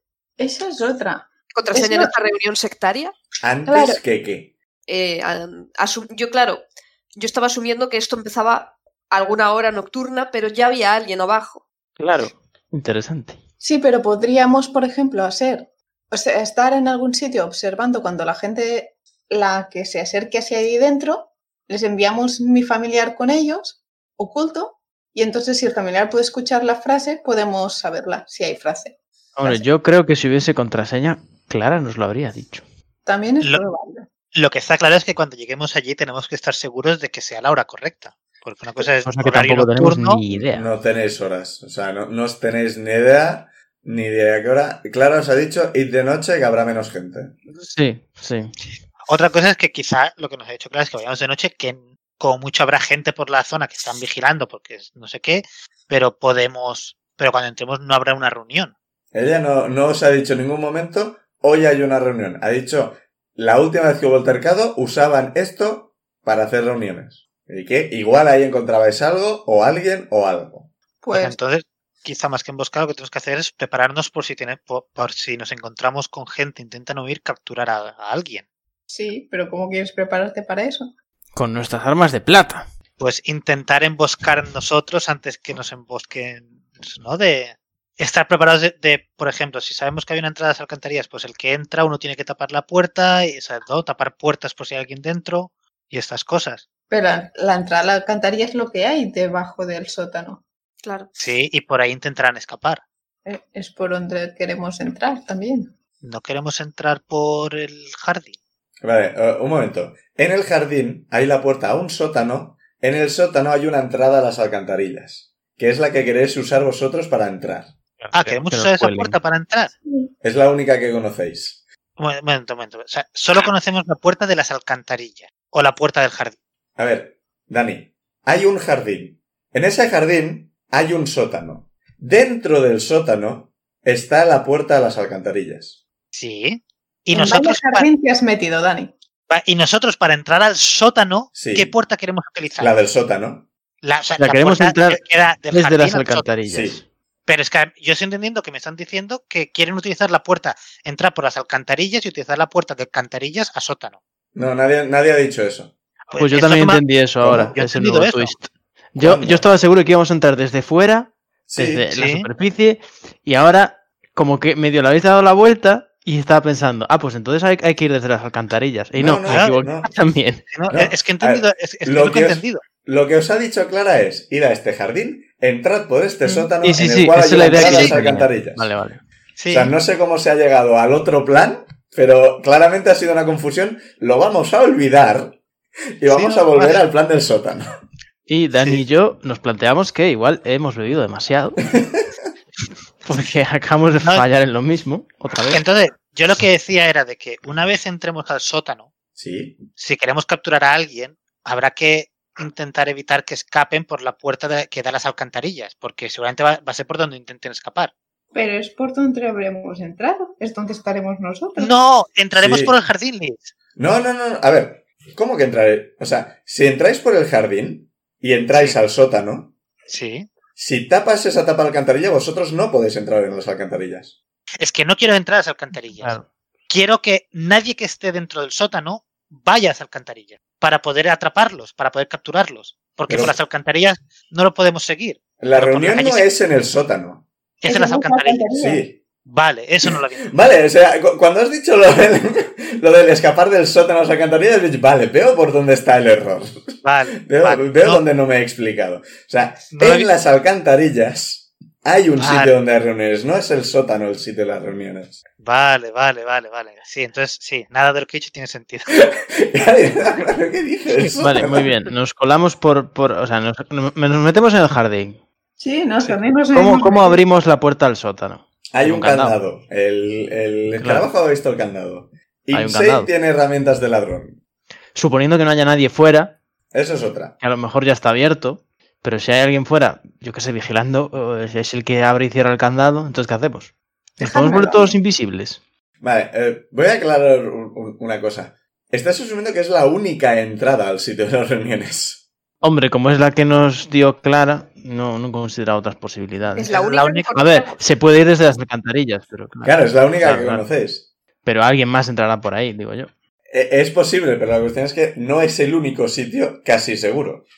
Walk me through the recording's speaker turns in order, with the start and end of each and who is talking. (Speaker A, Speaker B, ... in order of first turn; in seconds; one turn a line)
Speaker A: 0.4-2.1
Speaker B: 1.5-3.1
Speaker C: 3.4-4.5
Speaker A: 3.7-4.0
Speaker B: 4.9-6.6
Speaker B: 7.2-11.6
Speaker D: 12.0-13.4
Speaker A: 13.6-29.6
Speaker D: 29.4-32.6
Speaker A: 33.1-34.1
Speaker E: 34.3-40.2
Speaker D: 39.0-40.7
Speaker C: 40.5-47.4
Speaker D: 47.5-48.5
Speaker E: 49.1-58.7
Speaker C: 59.1-70.7
Speaker A: 71.0-71.4
Speaker E: 71.1-78.5
Speaker A: 78.9-80.9
Speaker D: 81.3-82.7
Speaker E: 83.0-96.7
Speaker A: 96.9-100.4
Speaker B: 100.8-101.1
Speaker E: 101.2-102.8
Speaker A: 103.3-105.7
Speaker E: 106.0-108.4
Speaker C: 108.8-117.7
Speaker D: 118.0-119.2
Speaker E: 118.1-119.7
Speaker C: 120.2-121.6
Speaker E: 122.0-126.4
Speaker C: 126.8-135.8
Speaker E: 136.1-137.9
Speaker A: 137.1-138.9
Speaker E: 139.3-142.8
Speaker C: 141.3-141.7
Speaker C: 142.6-143.5
Speaker E: 143.8-146.3
Speaker D: 144.2-146.9
Speaker C: 146.5-146.8
Speaker E: 147.3-154.0
Speaker C: 154.3-155.7
Speaker D: 156.1-170.5
Speaker E: 156.1-158.3
Speaker C: 157.2-157.5
Speaker C: 159.0-159.5
Speaker C: 161.5-161.9
Speaker E: 161.9-162.3
Speaker C: 169.0-169.9
Speaker E: 169.3-169.6
Speaker E: 170.5-172.6
Speaker C: 170.7-178.7
Speaker D: 176.6-179.0
Speaker E: 177.4-177.9
Speaker E: 179.4-179.7
Speaker C: 179.5-185.4
Speaker C: 186.0-187.7
Speaker E: 186.1-186.8
Speaker D: 188.3-191.7
Speaker D: 193.0-195.6
Speaker E: 195.5-198.9
Speaker C: 199.2-199.6
Speaker E: 199.8-207.9
Speaker A: 208.3-211.7
Speaker E: 211.6-213.5
Speaker C: 212.4-212.8
Speaker C: 213.8-219.5
Speaker E: 218.5-218.8
Speaker E: 219.9-220.3
Speaker C: 220.6-224.2
Speaker E: 224.6-226.2
Speaker D: 226.0-226.3
Speaker E: 226.7-236.3
Speaker C: 233.1-233.3
Speaker C: 235.4-237.2
Speaker E: 237.6-238.5
Speaker A: 237.7-238.8
Speaker C: 238.5-239.0
Speaker E: 239.2-240.3
Speaker C: 240.3-255.2
Speaker E: 246.8-248.0
Speaker E: 249.7-250.1
Speaker E: 252.2-252.5
Speaker E: 255.4-259.1
Speaker C: 259.1-261.8
Speaker D: 261.0-265.2
Speaker A: 265.6-267.2
Speaker D: 266.5-269.4
Speaker C: 268.7-274.4
Speaker D: 270.8-271.1
Speaker D: 272.5-273.1
Speaker D: 274.9-276.4
Speaker C: 276.7-277.4
Speaker D: 277.4-285.6
Speaker A: 284.2-285.0
Speaker C: 286.0-292.2
Speaker D: 292.6-296.8
Speaker B: 296.6-297.8
Speaker E: 296.7-297.4
Speaker D: 297.3-300.6
Speaker C: 299.6-301.1
Speaker D: 301.4-303.1
Speaker C: 303.5-307.4